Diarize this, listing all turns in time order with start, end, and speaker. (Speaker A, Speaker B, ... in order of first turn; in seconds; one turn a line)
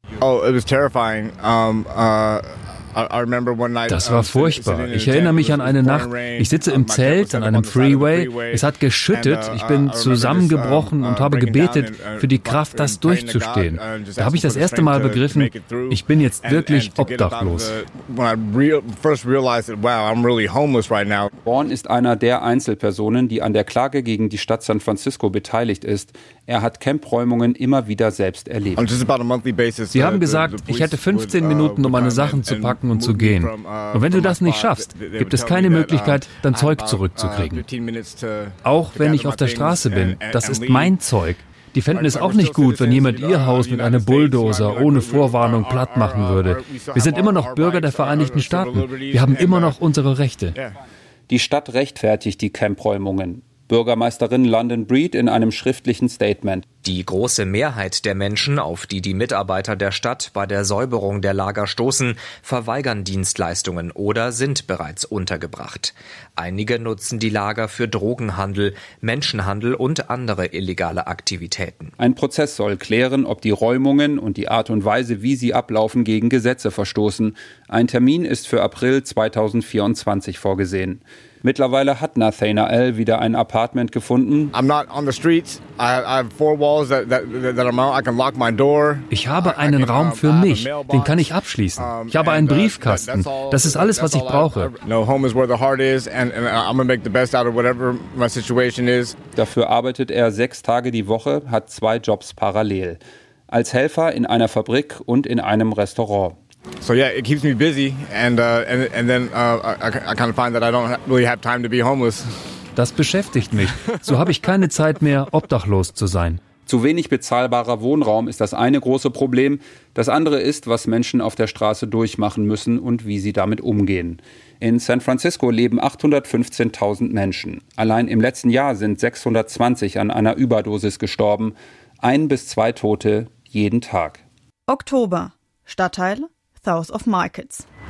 Speaker A: 0.2-21.3
Speaker B: 3.9-17.7
Speaker C: 21.4-28.9
Speaker A: 28.8-41.0
Speaker B: 29.9-37.6
Speaker B: 38.6-50.5
Speaker A: 41.9-49.8
Speaker C: 51.3-56.6
Speaker D: 56.8-71.9
Speaker C: 72.0-84.5
Speaker A: 84.5-99.2
Speaker B: 89.1-94.7
Speaker C: 99.3-106.4
Speaker A: 106.8-112.3
Speaker B: 112.8-116.4
Speaker C: 116.7-134.2
Speaker E: 134.7-137.6